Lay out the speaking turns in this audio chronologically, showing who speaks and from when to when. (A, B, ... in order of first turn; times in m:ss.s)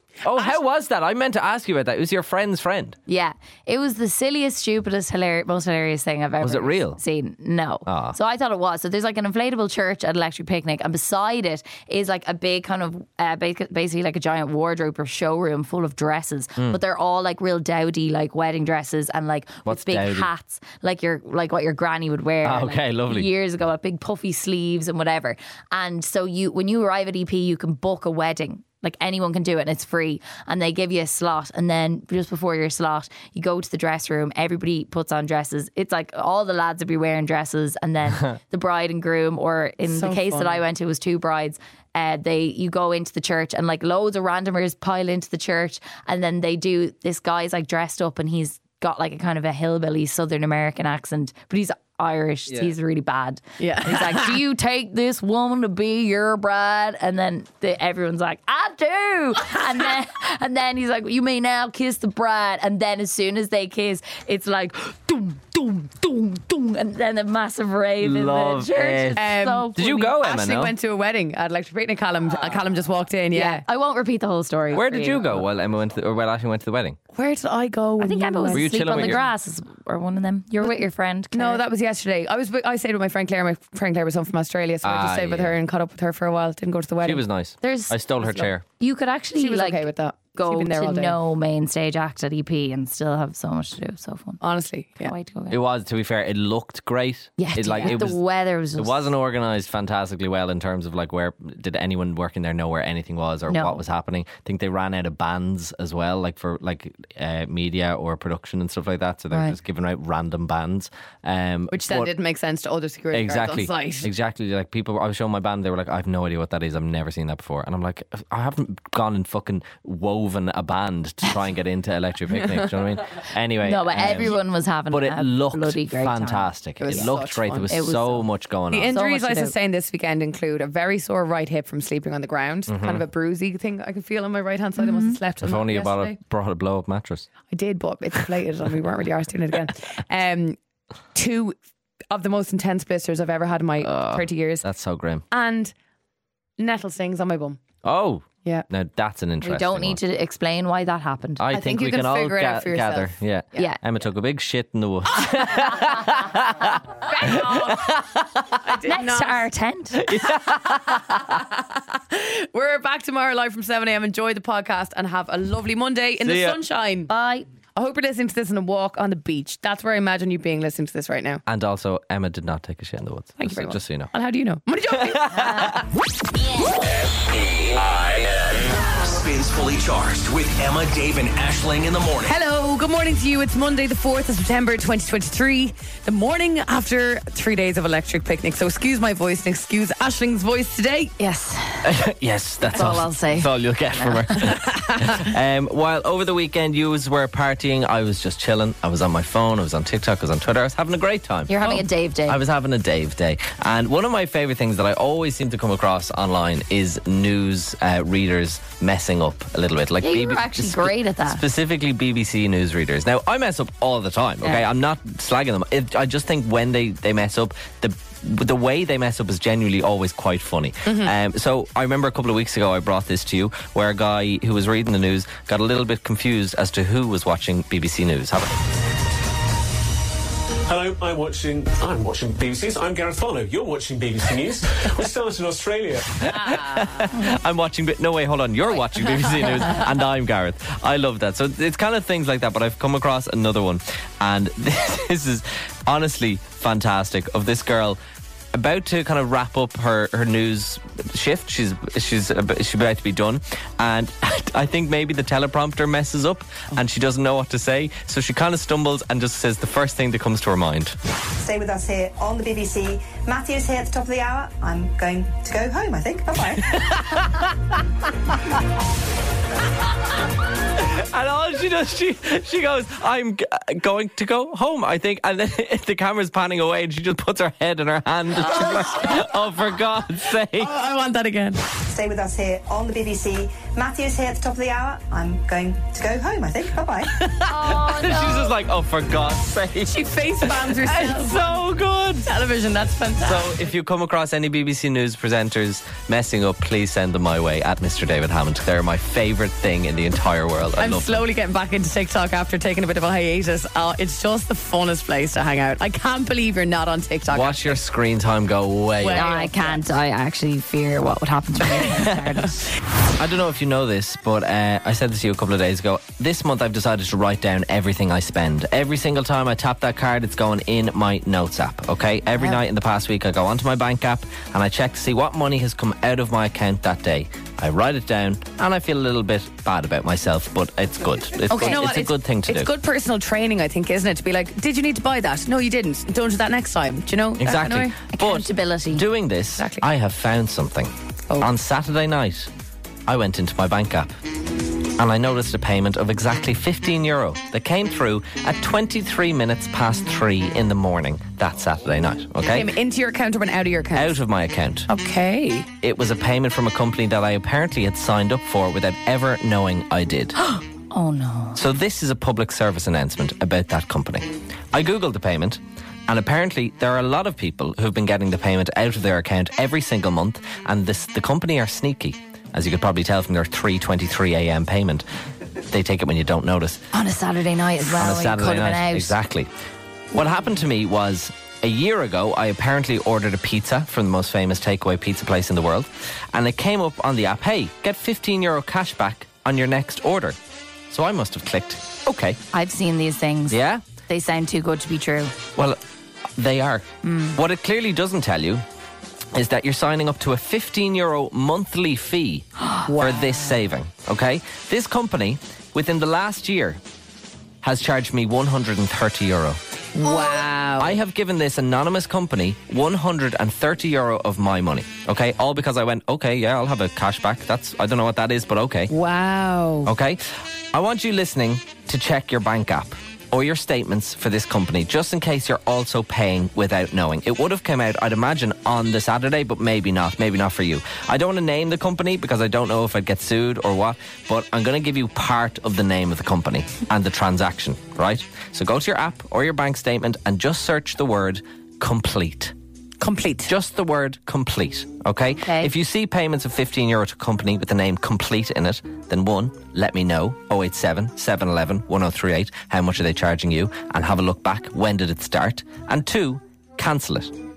0:00.2-0:03.0 A
0:00.3-0:00.6 B
0:03.1-1:10.0 C
0:06.4-0:07.0 A
0:07.8-0:08.2 A
0:19.6-0:20.3 A
0:22.4-0:23.3 A
0:39.8-0:40.6 B
0:53.6-0:54.4 B
1:08.0-1:10.7 A
1:09.2-1:13.6 B
1:13.3-1:15.4 C
1:14.7-1:17.0 A
1:17.1-1:19.2 B
1:18.0-1:21.6 C
1:18.5-1:19.2 A
1:21.3-1:27.2 B
1:24.8-1:25.6 A
1:27.0-1:28.6 A
1:27.6-1:28.0 C
1:28.8-1:34.4 C
1:29.4-1:31.2 B
1:34.4-1:35.1 B
1:35.0-1:35.6 C
1:35.5-1:38.2 A
1:37.4-1:39.0 C
1:37.7-1:38.0 B
1:38.8-1:52.1 A
1:43.5-1:43.8 C
1:51.7-1:54.1 B
1:53.1-2:04.4 A
2:03.6-2:07.1 C
2:04.9-2:09.0 A
2:06.8-2:07.7 B
2:07.7-2:08.2 C
2:08.7-2:16.2 B
2:08.9-2:09.5 C
2:12.7-2:13.0 A
2:14.8-2:15.2 C
2:15.4-2:17.3 A
2:17.5-2:20.6 B
2:21.1-2:21.6 B
2:22.1-2:24.6 B
2:23.8-2:25.2 A
2:25.3-2:25.7 B
2:26.6-2:27.6 B
2:27.8-2:30.0 A
2:29.4-2:31.5 C
2:31.4-2:38.6 A
2:31.5-2:33.1 B
2:37.1-2:37.9 C
2:37.1-2:37.8 B
2:38.6-2:39.5 B
2:38.8-2:40.0 C
2:40.0-2:41.2 A
2:40.2-2:47.1 B
2:46.2-2:46.6 A
2:47.1-2:47.4 C
2:47.7-2:51.4 B
2:51.4-2:54.1 A
2:53.4-2:55.8 B
2:54.9-2:55.7 A
2:55.4-2:55.7 C
2:57.1-3:02.4 D
3:02.2-3:11.1 B
3:11.2-3:11.9 C
3:11.8-3:21.5 A
3:12.7-3:14.3 C
3:14.5-3:15.3 B
3:21.5-3:22.4 C
3:22.3-3:48.6 A
3:30.0-3:31.4 C
3:40.8-3:41.1 B
3:50.7-3:56.1 E
3:56.1-4:08.0 A
4:08.5-4:20.9 A
4:21.4-4:27.2 F
4:26.7-4:27.5 A
4:30.7-4:40.7 A
4:38.5-4:39.2 B
4:40.6-4:41.6 B
4:41.8-4:47.2 F
4:47.1-4:52.3 A
4:47.4-4:48.5 C
4:49.8-4:51.6 B
4:52.2-4:53.5 B
4:53.2-5:01.2 A
5:00.8-5:07.8 B
5:07.3-5:09.3 A
5:09.0-5:09.8 B
5:09.1-5:12.6 C
5:11.9-5:12.4 A
5:13.2-5:32.7 A
5:31.5-5:31.8 C
5:31.6-5:38.0 B
5:37.4-5:42.5 A
5:38.1-5:39.0 C
5:39.6-5:39.8 B
5:43.1-5:44.1 A
5:45.0-5:52.7 A
5:52.4-5:54.2 B
5:53.9-5:54.9 A
5:54.9-5:55.7 B
5:55.8-6:00.4 A
6:00.4-6:01.6 C
6:01.6-6:15.0 A
6:15.7-6:16.8 A
6:16.9-6:19.1 C
6:17.9-6:19.5 A
6:20.1-6:30.4 A
6:30.9-6:32.4 A
6:32.5-6:35.3 C
6:33.5-6:33.8 A
6:36.4-6:38.6 A
6:37.0-6:37.4 C
6:39.3-6:46.8 A
6:42.8-6:43.5 B
6:47.6-6:49.6 A
6:49.9-6:51.0 B
6:50.8-6:58.9 A
6:58.9-6:59.9 B
6:59.8-7:22.5 A
7:23.0-7:23.5 B
7:23.4-7:37.3 A
7:25.4-7:25.7 C